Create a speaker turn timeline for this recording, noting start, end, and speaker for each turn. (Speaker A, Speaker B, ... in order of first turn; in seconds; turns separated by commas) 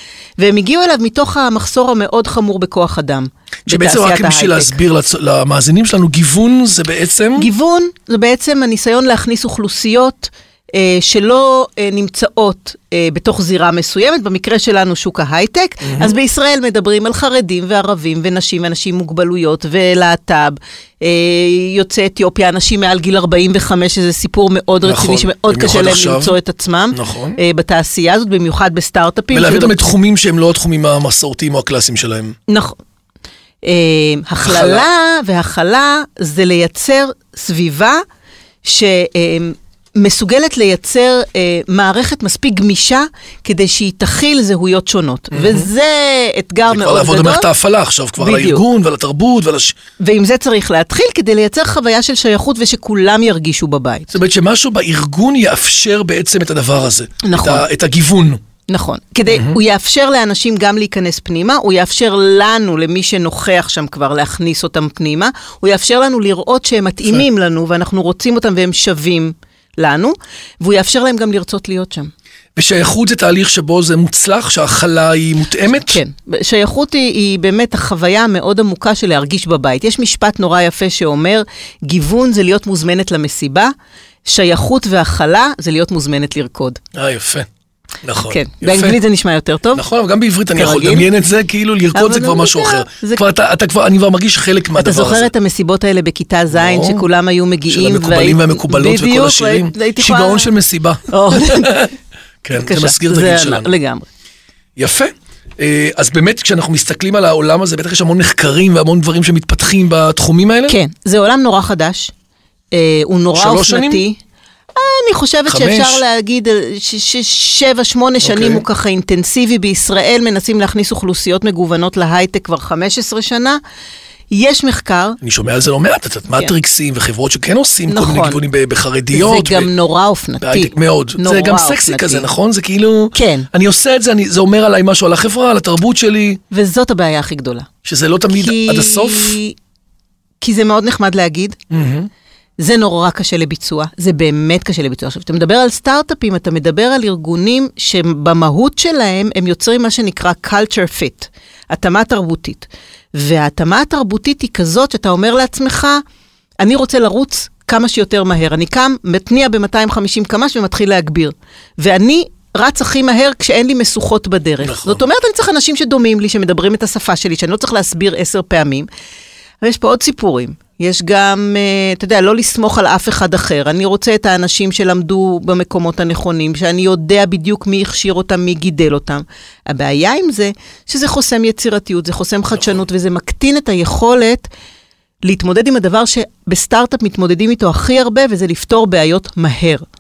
Speaker A: 0.4-4.7, Speaker B: 3.7-7.5, Speaker A: 7.3-29.8, Speaker B: 15.8-16.1, Speaker B: 24.8-26.4, Speaker B: 26.9-27.4, Speaker B: 29.3-32.3, Speaker A: 32.5-32.7, Speaker A: 33.6-38.0, Speaker B: 34.4-34.8, Speaker A: 38.6-47.5, Speaker B: 45.3-45.7, Speaker B: 46.6-49.8, Speaker A: 48.2-48.6, Speaker A: 50.0-54.1, Speaker B: 54.1-58.4, Speaker A: 57.2-57.6, Speaker A: 58.7-72.1, Speaker B: 59.3-59.6, Speaker B: 72.5-76.0, Speaker A: 75.8-83.7, Speaker A: 84.2-86.8, Speaker B: 86.9-87.5, Speaker B: 88.0-89.0, Speaker A: 88.3-89.8, Speaker B: 89.7-95.3, Speaker A: 90.5-91.1, Speaker A: 91.9-93.2, Speaker A: 94.8-100.5, Speaker B: 96.5-97.0, Speaker B: 97.7-101.9, Speaker A: 101.1-101.9, Speaker B: 102.4-103.7, Speaker A: 102.6-104.1, Speaker B: 104.8-110.8, Speaker A: 110.7-112.1, Speaker A: 112.7-114.2, Speaker B: 113.3-114.0, Speaker A: 114.7-123.6, Speaker B: 115.5-116.0, Speaker B: 118.2-118.6, Speaker A: 124.3-125.2, Speaker B: 125.2-129.7, Speaker A: 127.9-128.4, Speaker A: 129.1-132.3, Speaker B: 130.4-136.4, Speaker A: 133.1-133.5, Speaker A: 136.5-137.7, Speaker B: 137.8-139.4, Speaker A: 138.3-139.6, Speaker A: 140.4-141.6, Speaker B: 141.7-142.1, Speaker A: 142.6-156.0, Speaker A: 156.6-168.9, Speaker B: 164.6-165.0, Speaker A: 169.6-184.5, Speaker A: 185.2-189.8